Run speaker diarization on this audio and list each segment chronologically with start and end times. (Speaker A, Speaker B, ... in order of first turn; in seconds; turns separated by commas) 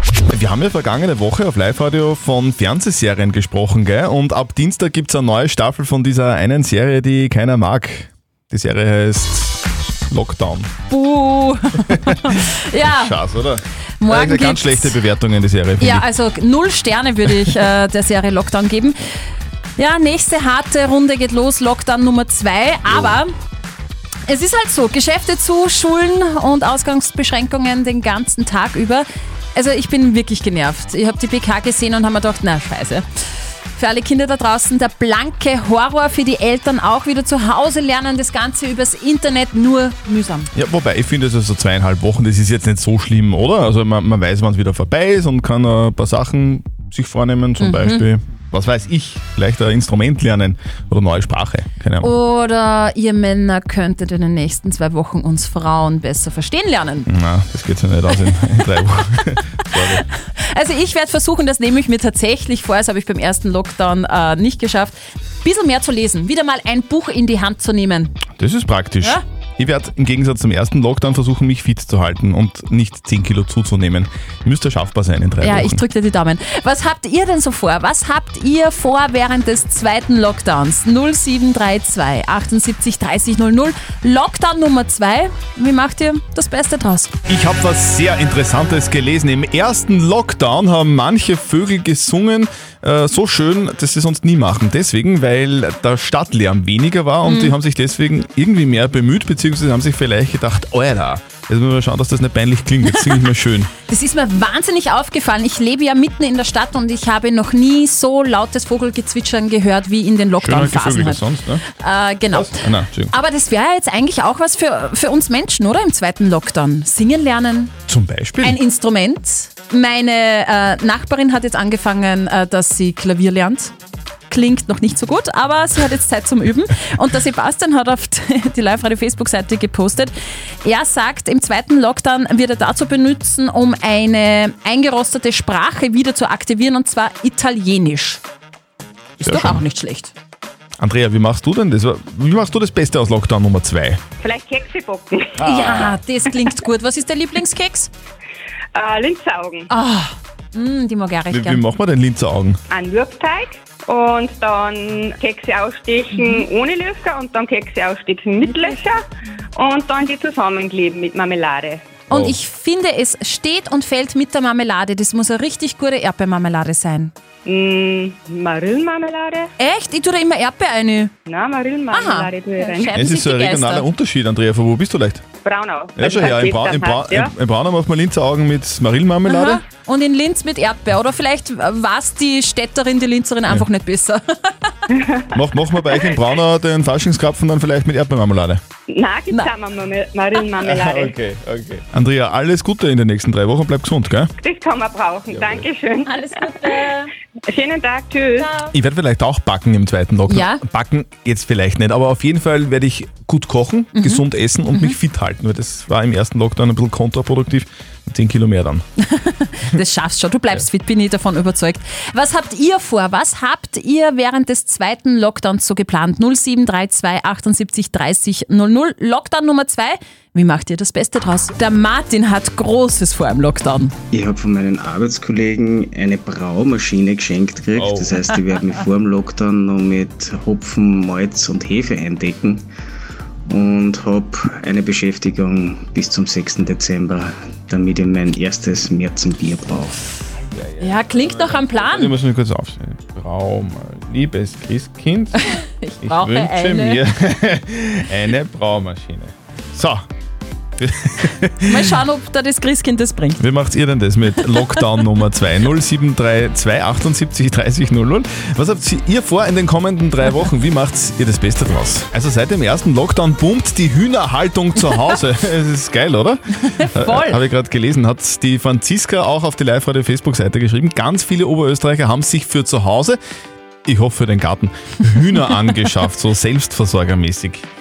Speaker A: 0.3-10.7, Speaker B: 10.9-13.1, Speaker A: 12.8-16.1, Speaker B: 14.0-15.0, Speaker B: 15.8-18.9, Speaker B: 19.8-23.3, Speaker A: 22.9-23.1, Speaker B: 24.3-33.0, Speaker B: 33.8-40.5, Speaker A: 40.5-52.1, Speaker B: 47.6-48.0, Speaker B: 52.0-57.1, Speaker A: 57.1-60.0, Speaker B: 60.4-68.2, Speaker A: 68.3-75.8, Speaker B: 75.4-87.1, Speaker A: 87.3-103.7, Speaker B: 97.2-97.5, Speaker B: 103.9-117.7, Speaker A: 110.4-111.6, Speaker A: 112.3-113.1, Speaker A: 117.9-118.6, Speaker B: 118.4-123.7, Speaker B: 124.3-138.2, Speaker B: 139.2-140.1, Speaker A: 139.2-139.6, Speaker A: 140.8-144.0, Speaker C: 144.2-145.4, Speaker A: 145.4-146.0, Speaker B: 145.4-147.9, Speaker C: 148.7-149.7, Speaker B: 149.7-151.6, Speaker A: 151.3-152.6, Speaker C: 152.7-159.0, Speaker C: 159.6-161.8, Speaker B: 162.1-167.1, Speaker A: 162.1-162.4, Speaker C: 167.4-169.5, Speaker B: 169.6-171.1, Speaker C: 171.2-172.9, Speaker B: 171.9-173.9, Speaker A: 172.9-175.2, Speaker C: 175.4-177.3, Speaker A: 175.9-179.6, Speaker B: 179.2-184.5, Speaker C: 184.9-185.2, Speaker A: 185.3-188.6, Speaker C: 188.9-191.2, Speaker A: 190.6-194.3, Speaker C: 194.4-196.8, Speaker A: 195.3-195.7, Speaker B: 196.1-197.1, Speaker C: 197.5-198.5, Speaker B: 198.4-198.7, Speaker A: 198.7-208.8, Speaker B: 200.3-200.6, Speaker B: 203.9-204.2, Speaker B: 209.0-223.9, Speaker D: 224.1-232.6, Speaker A: 227.7-228.2, Speaker D: 233.5-239.9, Speaker A: 240.5-250.1, Speaker B: 240.8-242.1, Speaker B: 245.4-247.0, Speaker A: 250.8-251.9, Speaker B: 251.7-253.4, Speaker A: 253.4-266.4, Speaker B: 266.7-267.4, Speaker A: 266.9-273.2, Speaker A: 273.9-277.6